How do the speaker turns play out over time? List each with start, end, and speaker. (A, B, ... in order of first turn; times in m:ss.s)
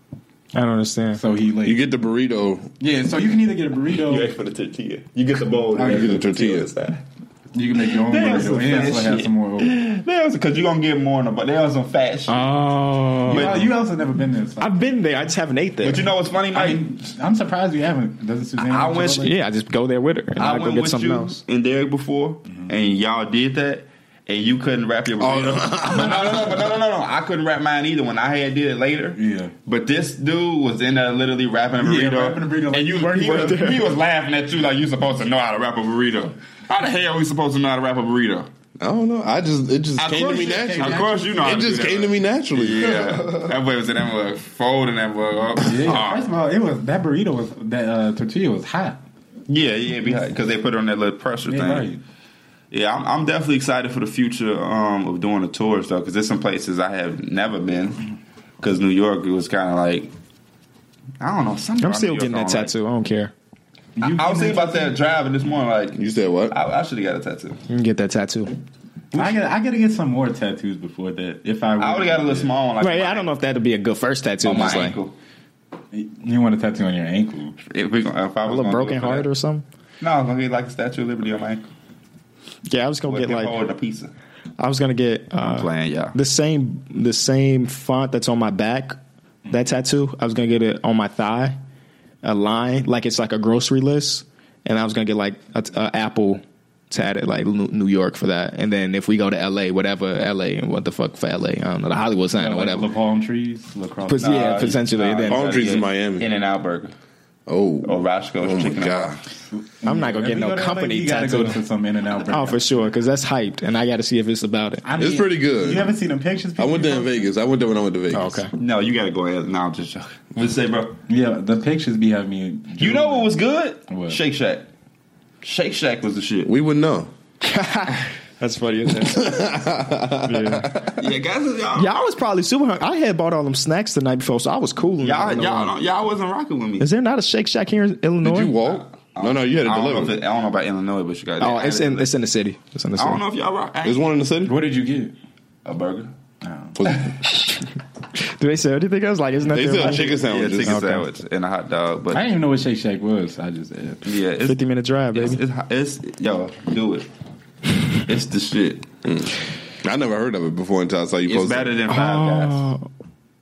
0:00.5-0:01.2 A
0:01.1-0:01.8 B
0:01.6-0:02.7 C
0:02.8-0:04.3 B
0:04.1-0:07.0 D
0:05.7-0:06.2 B
0:05.8-0:06.7 C
0:07.5-0:09.7 B
0:08.0-0:12.6 D
0:12.3-0:13.7 A
0:13.2-0:14.7 B
0:13.3-0:13.7 D
0:14.6-0:16.1 A
0:15.8-0:16.8 D
0:16.5-0:19.3 B
0:18.6-0:19.3 D
0:19.2-0:21.4 A
0:20.4-0:38.5 D
0:25.2-0:26.7 C
0:29.2-0:29.5 B
0:31.8-0:33.9 B
0:33.3-0:33.7 A
0:38.8-0:43.2 C
0:40.0-0:46.3 D
0:40.3-0:41.7 B
0:45.6-0:49.0 B
0:49.5-0:51.9 D
0:51.4-0:52.0 B
0:52.7-0:58.0 D
0:58.6-1:00.1 D
1:01.2-1:02.7 D
1:01.8-1:03.3 A
1:04.0-1:05.0 B
1:04.0-1:07.6 D
1:05.9-1:06.6 C
1:07.7-1:08.5 A
1:09.1-1:09.4 D
1:09.1-1:12.5 B
1:11.8-1:13.2 D
1:12.8-1:15.0 A
1:14.4-1:15.1 D
1:15.9-1:17.6 B
1:17.6-1:19.3 D
1:18.4-1:19.6 A
1:20.0-1:21.7 D
1:22.7-1:23.5 A
1:23.1-1:24.1 D
1:24.6-1:29.0 A
1:25.4-1:26.1 D
1:29.5-1:31.6 A
1:32.2-1:42.9 A
1:42.4-1:44.5 B
1:44.0-1:45.6 A
1:44.2-1:46.9 D
1:45.3-1:46.3 C
1:47.5-1:49.2 C
1:47.8-1:49.2 D
1:49.5-1:52.8 B
1:49.8-1:51.6 A
1:52.3-1:54.8 A
1:54.8-1:57.3 B
1:55.0-1:55.9 C
1:56.6-1:58.5 C
1:58.1-1:58.5 A
1:58.6-2:01.0 D
2:01.1-2:03.3 B
2:02.8-2:04.7 D
2:03.9-2:04.2 B
2:05.4-2:06.5 D
2:06.4-2:07.1 C
2:07.4-2:09.6 A
2:09.0-2:10.9 C
2:10.2-2:10.9 A
2:10.9-2:11.9 D
2:11.8-2:15.7 A
2:15.0-2:16.9 D
2:16.8-2:18.5 A
2:18.2-2:20.2 C
2:18.6-2:22.1 D
2:21.4-2:23.2 A
2:23.0-2:24.1 D
2:23.8-2:24.6 C
2:24.4-2:25.1 B
2:25.6-2:26.1 D
2:26.4-2:26.8 B
2:26.8-2:27.1 C
2:27.3-2:27.6 A
2:28.2-2:31.0 A
2:29.5-2:30.8 C
2:30.1-2:32.2 D
2:32.1-2:34.0 B
2:34.0-2:34.6 D
2:34.4-2:35.4 A
2:35.1-2:37.1 D
2:38.0-2:38.9 D
2:39.0-2:41.8 C
2:41.3-2:42.7 D
2:41.9-2:42.8 A